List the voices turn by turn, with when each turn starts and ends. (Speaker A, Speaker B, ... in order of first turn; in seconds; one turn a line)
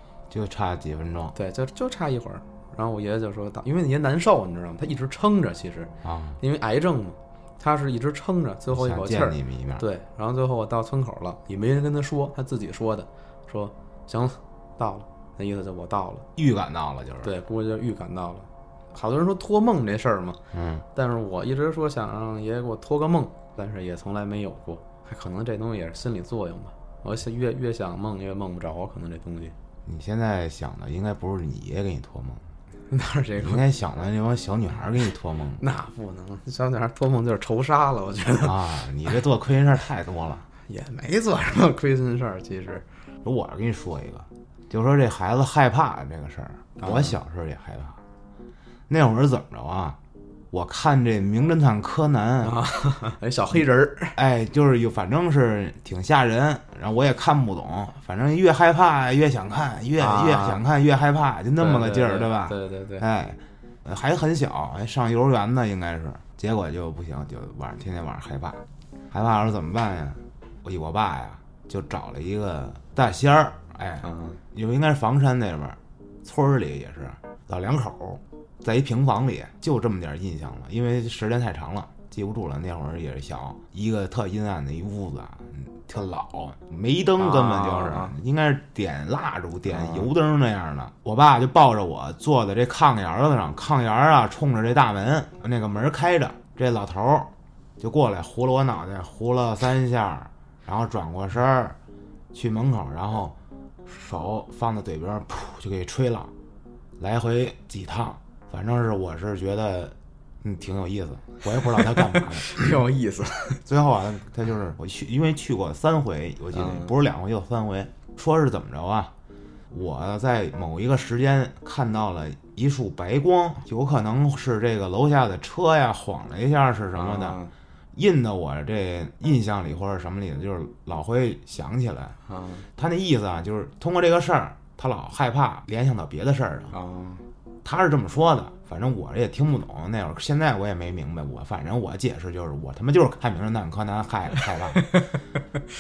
Speaker A: 0.3-1.4
Speaker B: 1.4-16.3
Speaker A: 6.0-6.4
Speaker A: 8.7-9.8
Speaker A: 16.4-17.3
Speaker B: 17.2-20.4
Speaker A: 20.5-20.9
Speaker B: 20.9-29.6
Speaker A: 29.9-32.5
Speaker B: 32.9-33.6
Speaker A: 33.4-35.6
Speaker B: 35.6-38.6
Speaker A: 38.4-40.5
Speaker B: 40.7-42.9
Speaker A: 43.2-48.0
Speaker B: 46.8-47.2
Speaker A: 48.9-50.0
Speaker A: 50.5-52.6
Speaker B: 52.4-54.2
Speaker A: 54.1-101.8
Speaker B: 60.0-60.6
Speaker B: 61.6-63.0
Speaker B: 74.0-74.4
Speaker B: 87.2-88.2
Speaker B: 89.7-90.1
Speaker A: 102.3-103.3
Speaker A: 103.9-106.3
Speaker A: 107.0-112.8
Speaker B: 111.6-113.6
Speaker A: 113.7-119.1
Speaker B: 116.5-116.9
Speaker A: 119.7-127.4
Speaker B: 127.0-127.5
Speaker A: 127.9-132.2
Speaker B: 132.3-132.7
Speaker A: 132.8-136.7
Speaker B: 136.7-137.3
Speaker A: 137.6-144.9